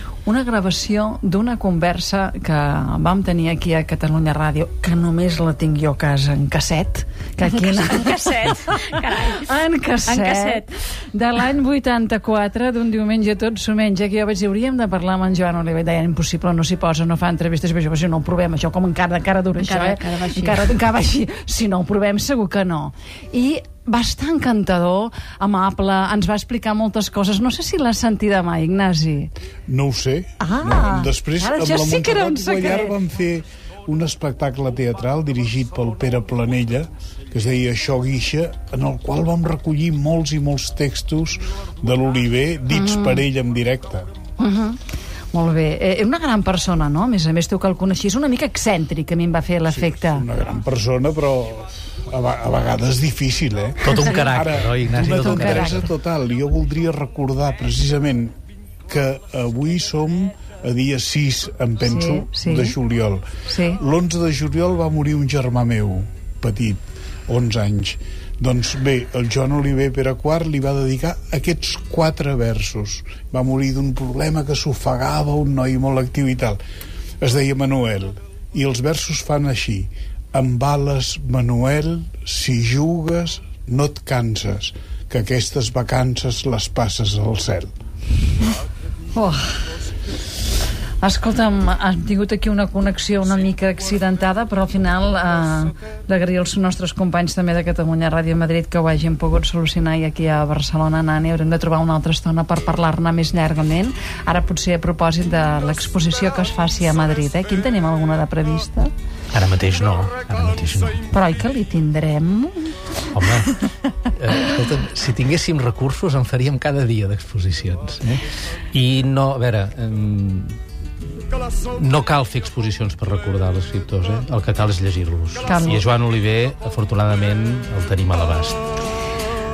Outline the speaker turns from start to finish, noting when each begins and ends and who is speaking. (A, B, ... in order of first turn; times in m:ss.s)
0:00.2-0:08.8 A
0:07.5-0:09.5 B
0:09.4-0:29.3 A
0:10.0-0:10.6 B
0:19.6-0:20.8 B
0:29.7-0:44.1 C
0:30.4-0:32.9 A
0:42.7-0:43.2 A
0:44.4-0:44.8 A
0:45.3-0:50.3 A
0:49.7-0:58.4 C
0:53.8-0:55.8 D
0:55.1-0:55.9 A
0:58.9-1:16.6 C
1:01.9-1:02.8 A
1:03.5-1:03.8 A
1:17.2-1:27.7 C
1:29.1-1:29.5 A
1:31.0-1:48.9 A
1:49.3-1:51.1 D
1:51.1-1:52.8 A
1:53.1-2:00.6 D
2:01.7-2:08.6 D
2:05.4-2:05.8 A